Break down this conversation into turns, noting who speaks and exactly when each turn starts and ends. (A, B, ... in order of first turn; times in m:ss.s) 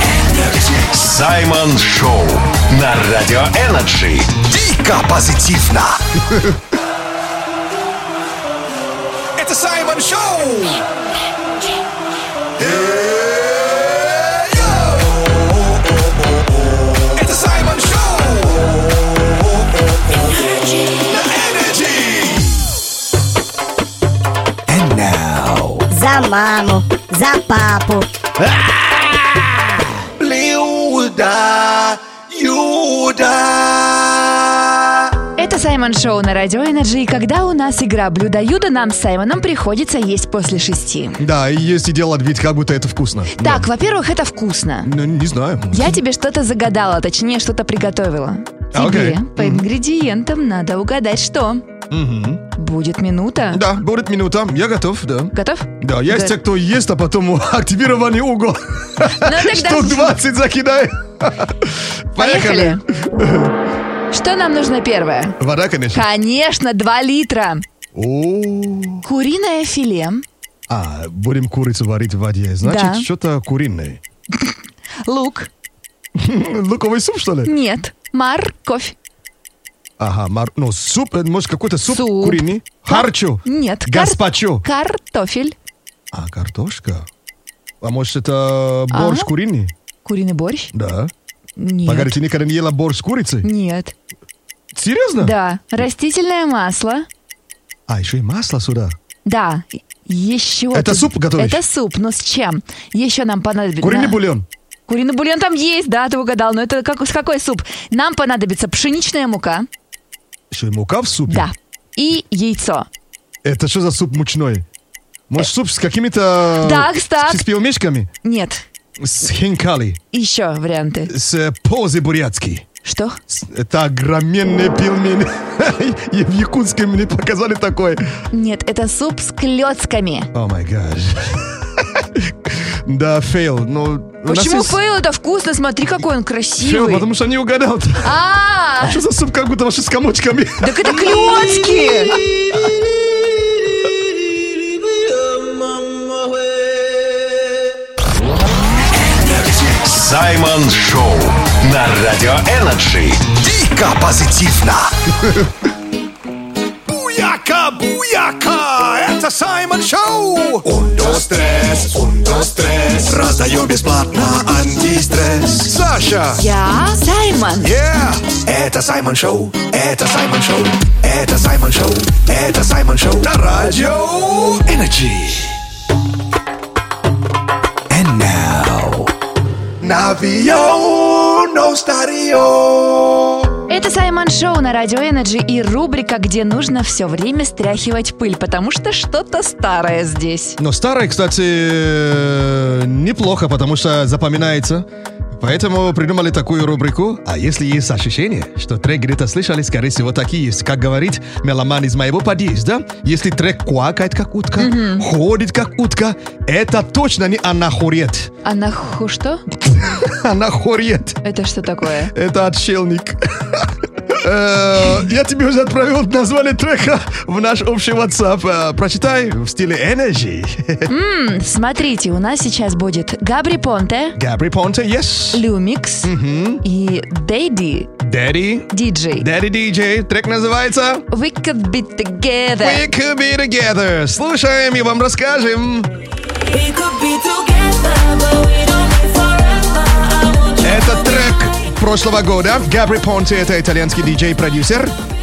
0:00.6-0:04.4 A
0:04.4-0:06.0 B
0:09.4-0:10.9 B
0:12.6-0:13.8 B
0:14.5-0:15.4 B
0:17.0-0:19.4 B
0:21.1-0:22.4 B
0:21.2-0:22.5 C
0:24.7-0:25.8 B
0:25.9-0:28.1 D
0:28.5-0:29.4 B
0:30.2-0:34.5 B
0:35.4-0:41.2 E
0:41.2-0:43.7 C
0:43.3-0:44.9 E
0:44.8-0:46.0 C
0:45.7-0:51.7 E
0:48.7-0:49.7 C
0:51.9-0:52.4 C
0:52.6-0:53.6 E
0:53.5-1:03.5 C
0:55.3-0:56.4 E
0:59.2-1:00.2 E
1:02.2-1:02.8 E
1:04.1-1:05.4 E
1:05.4-1:06.1 C
1:05.9-1:07.6 E
1:08.0-1:09.0 C
1:09.0-1:10.2 E
1:10.7-1:14.0 C
1:12.6-1:13.1 E
1:15.0-1:15.5 E
1:16.2-1:17.5 C
1:17.4-1:19.0 E
1:20.0-1:24.6 C
1:21.9-1:25.6 E
1:26.1-1:27.1 C
1:27.8-1:29.7 C
1:28.9-1:29.3 E
1:30.0-1:30.7 E
1:30.7-1:31.1 C
1:31.6-1:32.2 E
1:31.9-1:33.5 C
1:33.4-1:33.9 E
1:34.7-1:35.3 C
1:35.2-1:37.1 E
1:37.9-1:39.0 C
1:39.3-1:44.2 E
1:40.7-1:41.6 C
1:43.8-1:44.5 C
1:44.9-1:49.7 E
1:50.5-1:51.5 C
1:51.3-1:52.9 E
1:53.4-1:54.6 C
1:55.3-1:58.1 C
1:56.6-1:57.4 E
1:58.2-1:58.6 E
1:59.0-2:00.0 C
2:00.1-2:01.1 E
2:01.1-2:02.7 C
2:02.8-2:03.2 E
2:03.3-2:08.0 C
2:08.3-2:10.3 E
2:10.3-2:14.8 C
2:14.3-2:17.1 E
2:16.6-2:18.1 C
2:18.0-2:19.0 E
2:18.8-2:21.2 C
2:20.6-2:22.2 E
2:29.5-2:33.3 A
2:33.3-2:34.9 B
2:36.9-2:40.6 C
2:38.3-2:46.1 B
2:45.7-2:46.4 C
2:46.4-2:47.8 E
2:47.6-2:53.4 B
2:53.2-2:54.6 C
2:54.4-2:55.6 B
2:57.9-2:59.1 B
2:59.8-3:03.4 B
3:03.7-3:10.6 E
3:10.6-3:14.9 C
3:15.4-3:28.3 C
3:24.6-3:25.1 E
3:28.4-3:29.4 E
3:29.8-3:31.2 C
3:31.2-3:32.1 E
3:32.1-3:40.9 C
3:40.9-3:44.2 E
3:44.2-3:45.4 C
3:45.3-3:47.9 E
3:46.0-3:46.6 C
3:48.0-3:51.1 C
3:48.7-3:49.3 E
3:51.1-3:52.8 E
3:52.6-3:55.9 C
3:56.5-4:00.6 F
4:00.6-4:05.0 C